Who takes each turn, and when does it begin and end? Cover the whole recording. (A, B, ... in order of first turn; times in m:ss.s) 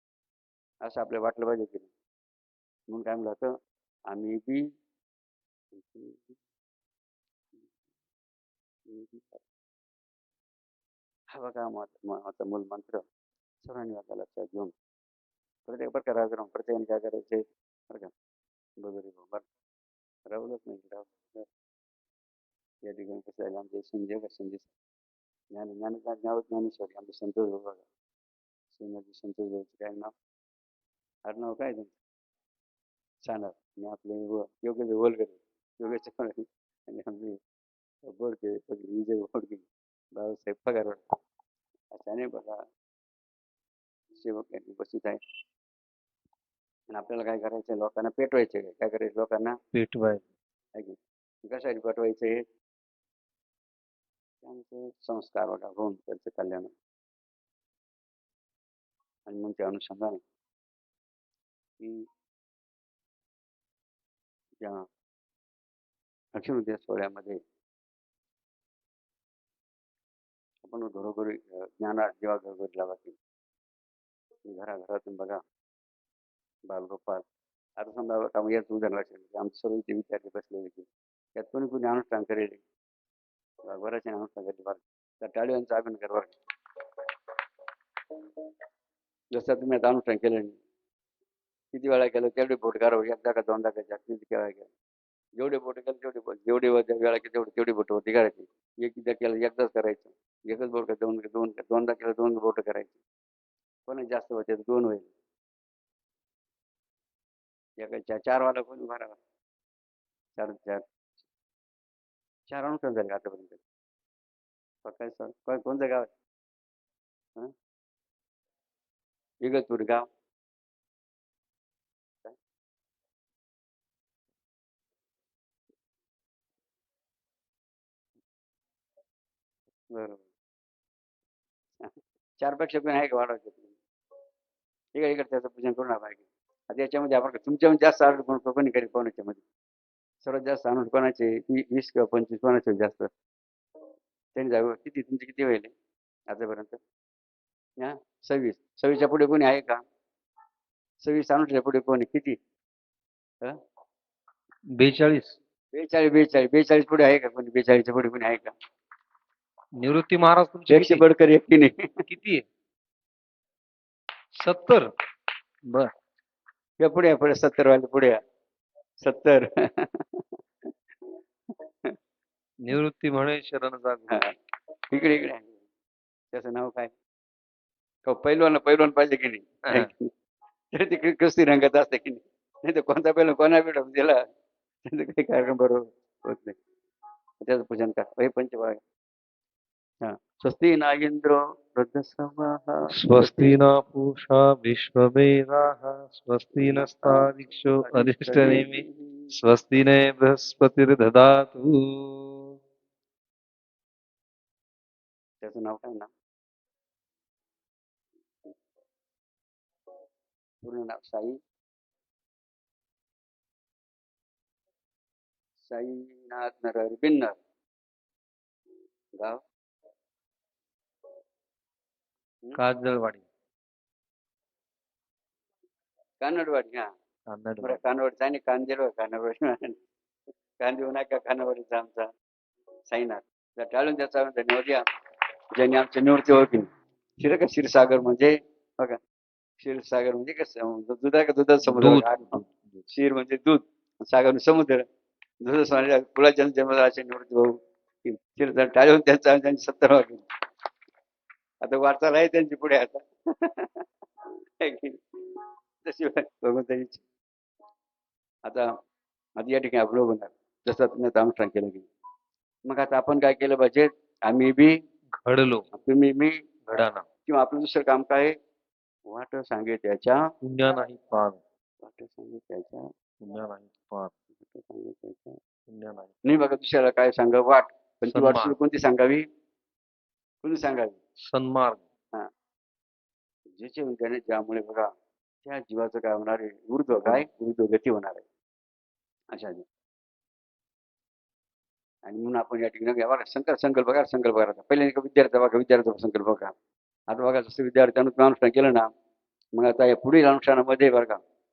0:00.8-0:01.9 A
0:02.9-0:03.5 A
0:04.1-0:04.7 A
0:05.7-0:06.4 A
0:08.9-0:09.4 A
0:11.3-0:13.0 A
0:13.6-0:14.7 A
0:15.7-0:18.1 A
0:18.8-0:19.4 A
0:20.3-0:21.5 A
0:22.8-0:24.7 A
0:25.5-0:27.8 A
0:28.7-0:30.1 A
0:31.2-0:32.0 A
0:33.2-0:37.4 A
0:38.1-0:39.6 A
0:40.2-0:41.0 A
0:41.9-0:42.6 A
0:44.2-0:45.2 A
0:46.9-0:49.6 A
0:49.7-0:50.2 B
0:50.8-0:52.4 A
0:54.4-0:56.7 A
0:59.3-1:00.2 A
1:01.8-1:02.1 A
1:04.6-1:04.9 A
1:06.4-1:07.4 A
1:10.6-1:13.2 A
1:14.5-1:15.4 A
1:16.7-1:17.3 A
1:17.8-1:22.6 A
1:23.7-1:26.3 A
1:29.3-1:30.6 A
1:31.7-1:34.7 A
1:35.4-1:43.0 A
1:43.9-1:45.1 A
1:47.8-1:49.2 A
1:50.4-1:50.8 A
1:52.5-1:53.6 A
1:54.8-1:56.1 A
1:59.4-2:00.1 A
2:09.9-2:10.2 A
2:11.8-2:13.8 A
2:15.0-2:19.4 A
2:20.2-2:23.1 A
2:24.4-2:25.7 A
2:26.3-2:26.8 A
2:27.8-2:29.8 A
2:31.0-2:32.4 A
2:34.8-2:35.4 B
2:35.7-2:38.5 A
2:39.8-2:41.1 B
2:40.7-2:41.9 A
2:42.1-2:42.4 B
2:44.4-2:44.9 B
2:46.8-2:48.2 A
2:49.0-2:50.2 A
2:52.7-2:54.2 B
2:54.9-2:55.6 A
2:56.3-2:56.9 A
2:58.1-3:00.1 A
3:00.7-3:04.2 A
3:04.8-3:06.6 A
3:07.4-3:08.8 A
3:10.0-3:13.6 A
3:12.9-3:22.3 B
3:16.6-3:19.3 A
3:25.4-3:26.1 A
3:30.6-3:31.4 A
3:35.6-3:37.4 A
3:39.2-3:39.4 A
3:42.6-3:43.2 B
3:46.2-3:46.9 A
3:47.3-3:47.8 B
3:47.6-3:49.8 A
3:50.6-3:52.1 A
3:52.9-3:54.8 A
3:55.6-3:56.7 A
3:57.2-3:59.0 A
3:59.6-4:04.8 A
4:01.6-4:02.8 B
4:05.4-4:10.2 A
4:11.6-4:13.8 A
4:14.6-4:15.0 A
4:15.8-4:17.0 A
4:19.4-4:21.9 A
4:22.7-4:24.8 A
4:25.2-4:25.6 B
4:25.7-4:26.4 A
4:26.7-4:27.0 B
4:27.3-4:28.4 A
4:29.1-4:30.2 A
4:30.4-4:31.4 B
4:31.8-4:32.9 A
4:33.2-4:34.1 B
4:34.4-4:35.4 A
4:35.7-4:36.1 B
4:36.2-4:39.2 A
4:38.1-4:38.6 B
4:40.4-4:41.0 A
4:41.2-4:41.8 B
4:43.6-4:44.9 A
4:45.4-4:48.2 A
4:49.3-4:49.7 A
4:52.1-4:56.5 A
4:57.1-4:58.9 A
4:59.6-5:01.2 A